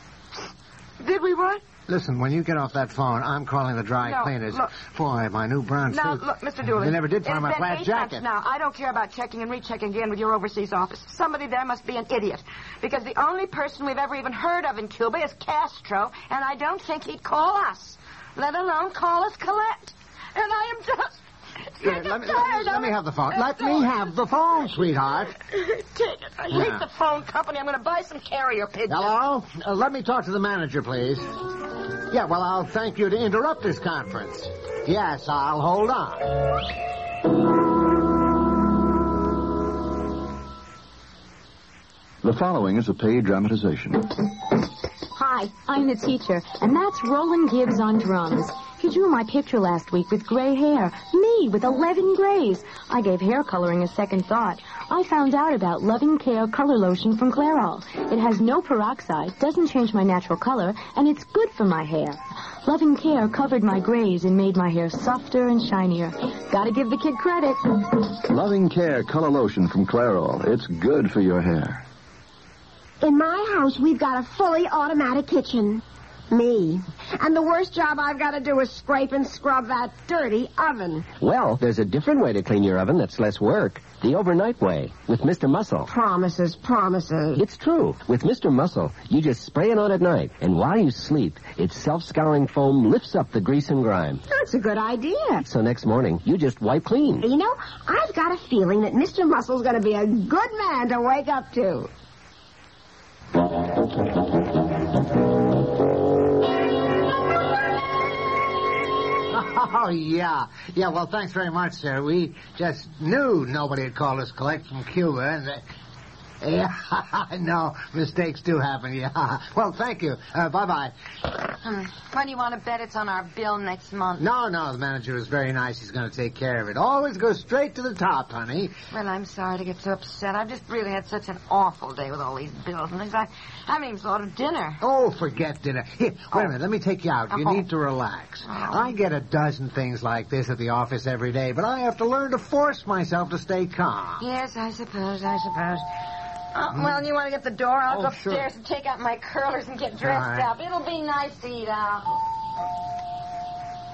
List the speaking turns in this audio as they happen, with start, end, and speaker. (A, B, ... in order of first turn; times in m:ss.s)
0:01.0-0:01.6 A
0:01.9-0:08.2 B
0:04.0-0:04.7 A
0:05.9-0:21.2 A
0:21.7-0:24.0 A
0:21.8-0:25.3 B
0:25.2-0:29.2 A
0:26.5-0:26.8 B
0:28.9-0:31.2 B
0:32.1-0:36.3 B
0:42.2-0:44.1 C
0:45.2-1:07.7 D
1:08.3-1:11.8 C
1:13.0-1:21.1 E
1:21.5-1:25.8 F
1:25.9-1:27.4 E
1:27.5-1:34.2 F
1:34.3-1:35.5 E
1:35.6-1:37.1 F
1:37.2-1:41.9 E
1:49.3-1:55.6 B
1:56.4-2:00.9 B
2:01.6-2:04.3 A
2:04.2-2:08.7 B
2:08.9-2:14.8 A
2:14.8-2:24.2 B
2:17.3-2:17.7 A
2:18.5-2:19.0 A
2:24.2-2:25.8 A
2:26.5-2:32.1 A
2:27.9-2:28.5 B
2:30.0-2:30.5 B